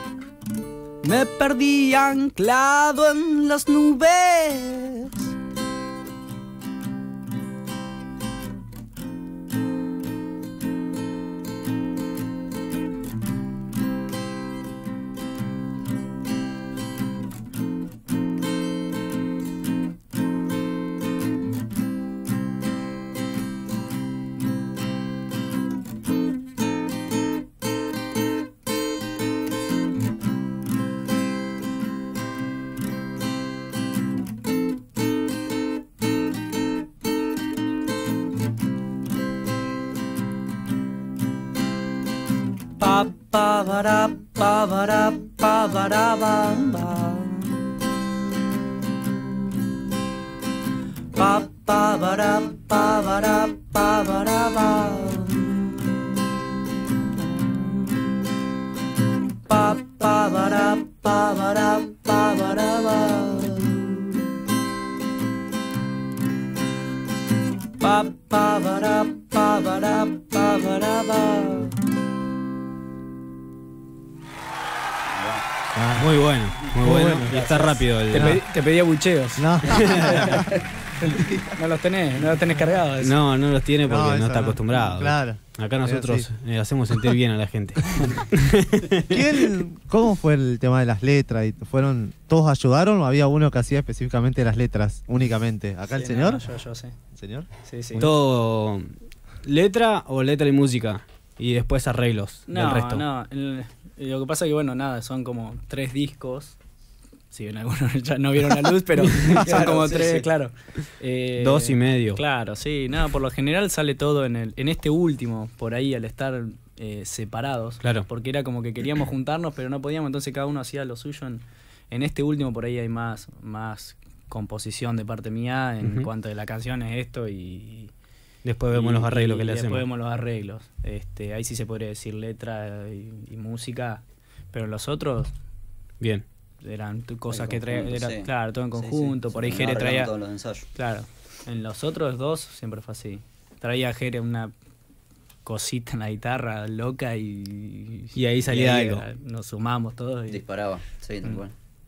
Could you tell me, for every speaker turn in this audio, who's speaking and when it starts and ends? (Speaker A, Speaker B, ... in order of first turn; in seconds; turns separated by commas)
Speaker A: 1.0-5.3, Speaker A: 42.8-47.8, Speaker A: 51.1-58.3, Speaker A: 59.5-64.2, Speaker A: 67.8-71.8, Speaker B: 75.1-75.4, Speaker C: 75.8-76.1, Speaker D: 76.0-78.4, Speaker C: 76.7-77.4, Speaker B: 77.3-77.7, Speaker A: 78.1-83.2, Speaker C: 78.2-78.4, Speaker C: 79.4-80.6, Speaker D: 79.7-80.2, Speaker C: 81.1-81.5, Speaker D: 83.0-89.5, Speaker C: 83.9-86.3, Speaker C: 89.1-96.5, Speaker A: 96.0-96.9, Speaker C: 97.2-98.0, Speaker A: 97.7-98.1, Speaker D: 98.0-103.0, Speaker A: 102.5-106.6, Speaker A: 107.3-127.9, Speaker B: 109.3-110.3, Speaker D: 111.4-112.2, Speaker D: 125.8-126.1, Speaker D: 128.4-129.8, Speaker A: 128.7-135.3, Speaker D: 136.0-136.2, Speaker A: 136.6-140.1, Speaker B: 137.3-140.7, Speaker A: 140.8-144.5, Speaker A: 145.4-150.4, Speaker D: 148.2-149.1, Speaker B: 150.3-151.5